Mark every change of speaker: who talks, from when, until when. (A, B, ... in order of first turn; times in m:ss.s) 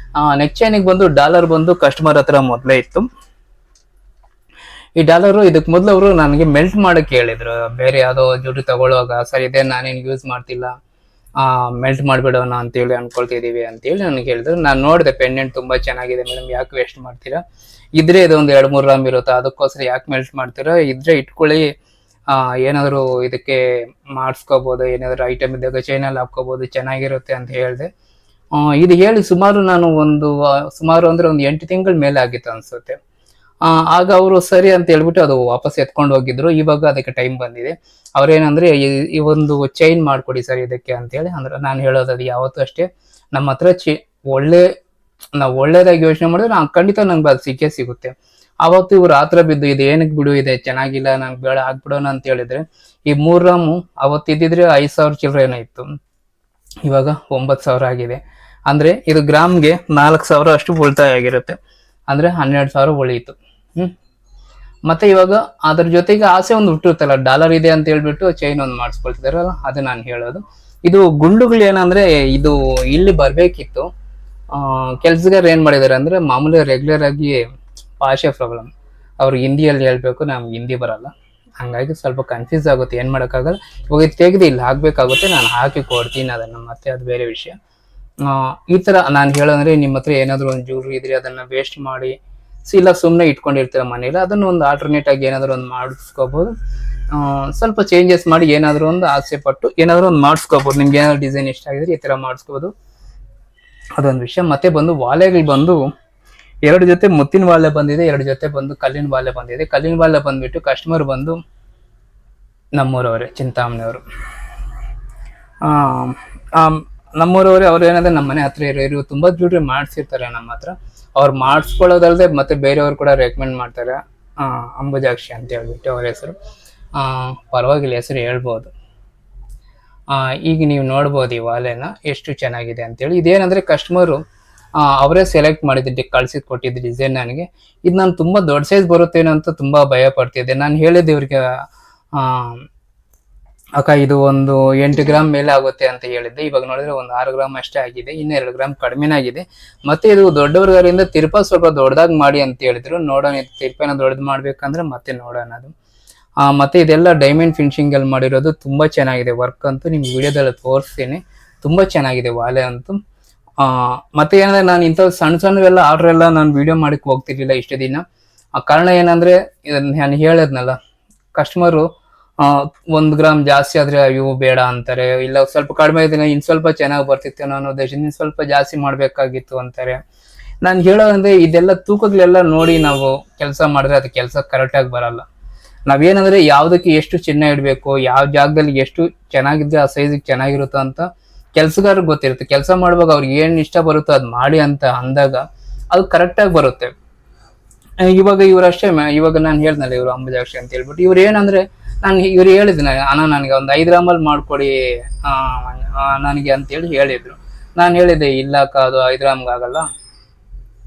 0:00.2-0:03.1 A
0:05.0-0:10.7 A
0:11.4-0:17.4 A
0:18.0-0:21.7 A
0:22.3-0:27.9 A
0:28.5-0:33.0 A
0:33.6-0:44.7 A
0:45.3-0:55.9 A
0:56.8-1:01.6 A
1:02.1-1:03.9 A
1:04.8-1:13.9 A
1:14.5-1:17.4 A
1:18.0-1:27.6 A
1:28.2-1:36.5 A
1:37.1-1:42.7 A
1:44.0-1:45.9 A
1:46.6-1:51.4 A
1:52.7-1:54.0 A
1:55.6-2:06.4 A
2:06.9-2:08.7 A
2:10.1-2:14.2 A
2:14.8-2:22.6 A
2:23.8-2:35.7 A
2:36.4-2:43.0 A
2:43.6-2:48.0 A
2:48.6-2:50.8 A
2:51.3-2:51.9 A
2:52.4-3:00.0 A
3:00.6-3:05.2 A
3:05.9-3:16.9 A
3:18.0-3:29.9 A